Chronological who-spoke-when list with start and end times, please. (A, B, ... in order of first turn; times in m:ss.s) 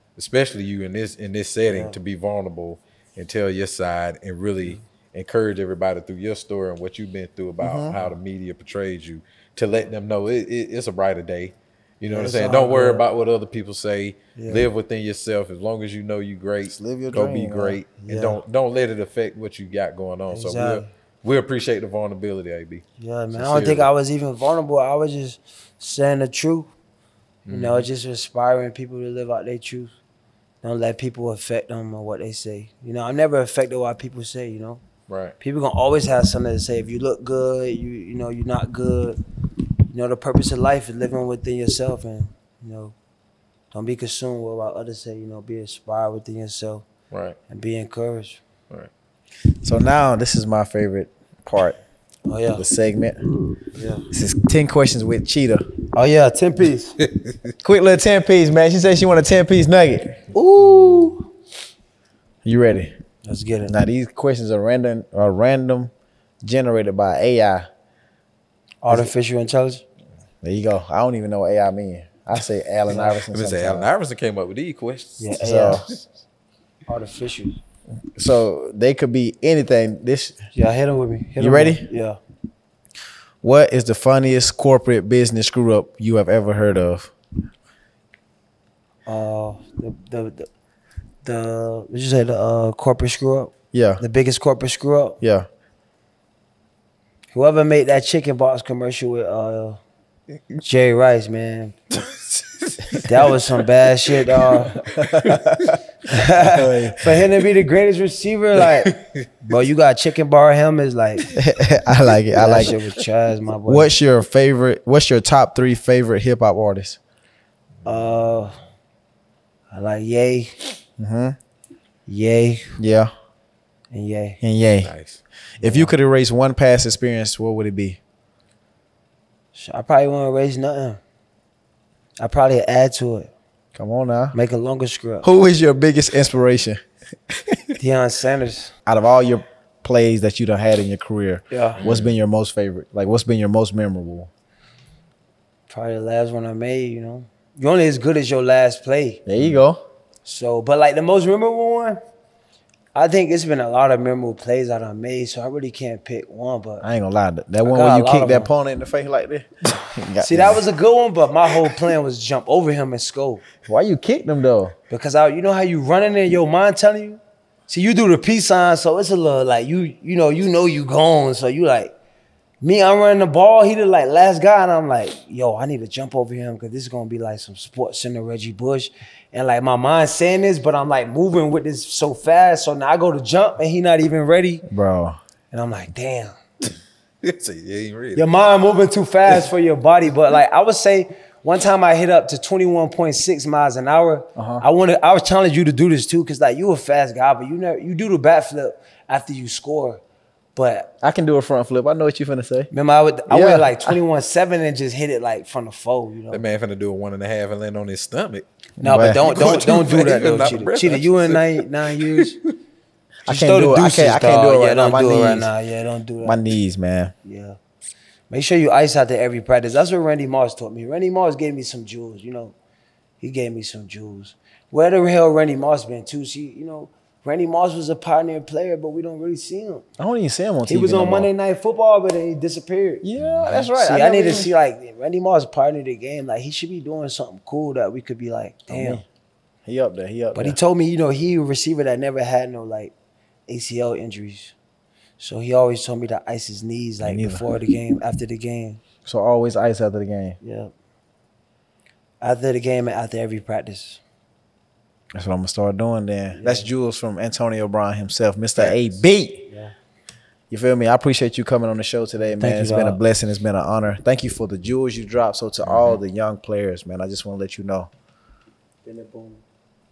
0:00.2-0:23.9 A
0:01.7-0:02.0 B
0:07.6-0:08.0 C
0:12.1-0:13.0 B
0:14.4-0:14.7 B
0:16.7-0:17.8 C
0:18.0-0:18.4 B
0:20.3-0:20.9 B
0:23.0-0:26.7 B
0:27.5-0:29.9 B
0:27.5-0:27.9 A
0:30.6-0:34.8 B
0:35.1-0:35.4 A
0:35.4-0:39.2 B
0:39.9-0:43.0 B
0:43.7-0:46.9 B
0:47.1-0:47.4 A
0:47.5-0:48.4 B
0:49.6-0:51.8 C
0:52.3-0:52.6 B
0:52.6-0:53.2 C
0:53.7-0:54.1 B
0:54.1-0:55.7 C
0:55.9-0:57.0 B
0:57.6-1:01.1 C
1:00.6-1:01.0 B
1:02.4-1:02.9 C
1:03.2-1:03.8 B
1:03.7-1:07.7 C
1:08.8-1:09.8 B
1:10.4-1:13.9 C
1:12.9-1:13.2 B
1:13.3-1:15.8 A
1:15.2-1:16.0 B
1:15.4-1:15.8 C
1:16.9-1:17.6 B
1:18.2-1:20.4 C
1:20.5-1:22.2 B
1:21.4-1:21.9 C
1:23.4-1:27.1 C
1:29.1-1:30.5 B
1:31.2-1:35.2 B
1:33.7-1:34.0 C
1:35.2-1:35.5 C
1:37.3-1:39.8 B
1:40.6-1:41.8 B
1:42.1-1:43.0 A
1:43.0-1:44.8 B
1:44.9-1:45.8 C
1:46.1-1:51.3 B
1:46.4-1:47.3 C
1:48.8-1:49.2 A
1:51.3-1:52.7 C
1:52.4-1:53.9 B
1:53.7-1:57.0 C
1:57.8-1:58.6 B
1:59.7-2:00.6 B
2:01.0-2:01.4 C
2:02.1-2:02.8 B
2:02.8-2:03.1 C
2:03.9-2:04.4 B
2:04.4-2:04.9 C
2:04.8-2:05.2 A
2:05.6-2:05.9 B
2:05.6-2:08.0 C
2:09.5-2:11.0 B
2:12.2-2:13.3 B
2:13.8-2:14.4 C
2:14.3-2:15.3 B
2:15.2-2:17.8 C
2:17.8-2:18.7 B
2:18.9-2:24.3 C
2:21.5-2:21.8 B
2:21.8-2:22.1 A
2:25.7-2:29.2 B
2:29.3-2:29.8 C
2:30.2-2:32.0 B
2:33.0-2:36.8 B
2:36.8-2:40.6 C
2:37.6-2:38.5 B
2:40.2-2:43.4 B
2:43.6-2:44.8 C
2:44.9-2:51.9 B
2:52.6-3:04.6 B
3:04.7-3:05.2 C
3:05.5-3:06.4 B
3:07.2-3:08.3 A
3:08.2-3:20.0 B
3:14.4-3:14.6 C
3:20.6-3:20.9 B
3:21.0-3:22.7 C
3:22.7-3:26.4 B
3:23.3-3:24.0 C
3:26.3-3:28.5 A
3:28.8-3:29.3 C
3:28.8-3:32.4 B
3:29.2-3:32.5 A
3:33.3-3:35.5 C
3:33.3-3:36.4 B
3:36.2-3:37.1 C
3:37.2-3:37.6 B
3:38.3-3:42.6 B
3:43.2-3:49.9 B
3:50.0-3:51.3 C
3:50.7-3:59.0 B
3:53.0-3:54.5 C
3:53.2-3:53.5 A
3:58.7-3:59.0 C
3:59.7-4:00.6 C
4:00.3-4:02.9 B
4:03.5-4:04.6 B
4:05.2-4:08.8 B
4:07.0-4:07.5 C
4:09.1-4:10.4 C
4:10.4-4:10.7 B
4:12.2-4:14.0 B
4:15.2-4:19.5 C
4:16.3-4:16.7 B
4:18.6-4:18.9 A
4:19.5-4:19.7 B
4:20.5-4:27.9 C
4:22.3-4:23.0 B
4:25.6-4:26.0 A
4:28.8-4:29.4 B